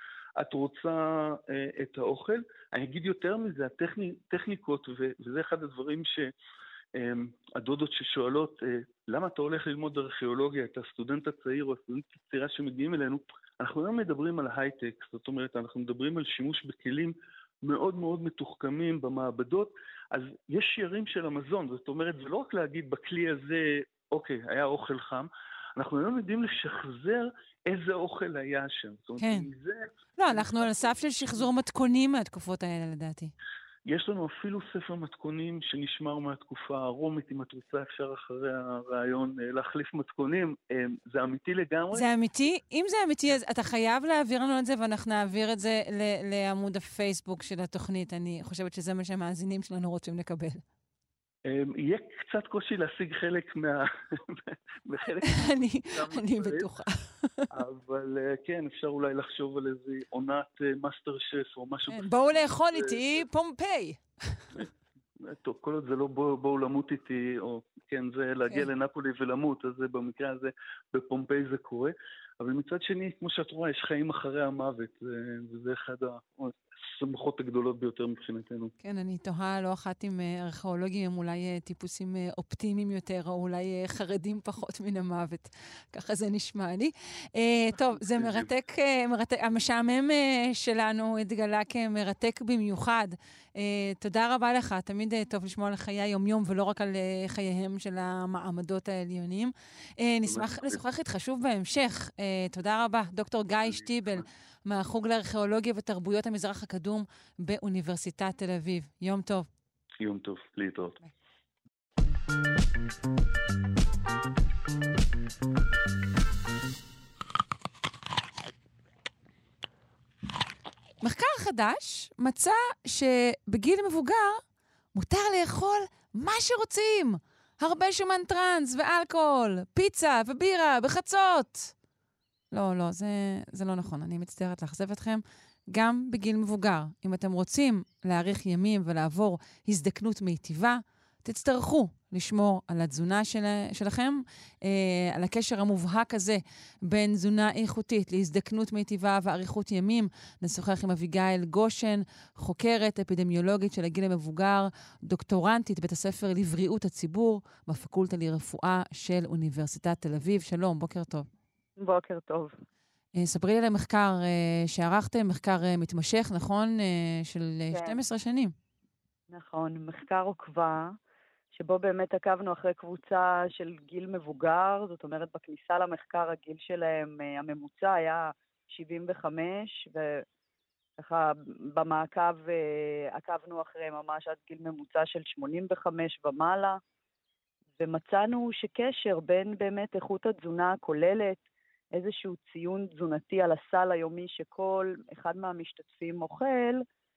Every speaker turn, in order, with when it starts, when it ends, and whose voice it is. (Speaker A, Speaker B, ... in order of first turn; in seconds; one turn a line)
Speaker A: 0.4-6.3
Speaker A: 7.0-30.9
Speaker B: 29.2-29.5
Speaker B: 30.2-33.3
Speaker A: 33.9-42.0
Speaker B: 41.9-50.6
Speaker A: 51.5-56.7
Speaker B: 55.3-57.5
Speaker A: 57.5-63.2
Speaker B: 61.9-64.6
Speaker A: 65.2-78.7
Speaker B: 78.8-109.5
Speaker A: 87.9-88.5
Speaker A: 100.3-100.8
Speaker A: 103.6-104.2
Speaker A: 110.0-111.0
Speaker B: 121.0-124.4
Speaker B: 124.9-131.7
Speaker B: 132.5-161.3
Speaker C: 161.8-162.6
Speaker B: 163.2-168.5
Speaker C: 167.7-168.0
Speaker C: 169.3-171.0
Speaker C: 171.5-180.2
Speaker C: 181.0-186.8
Speaker C: 187.8-191.4
Speaker C: 191.9-196.8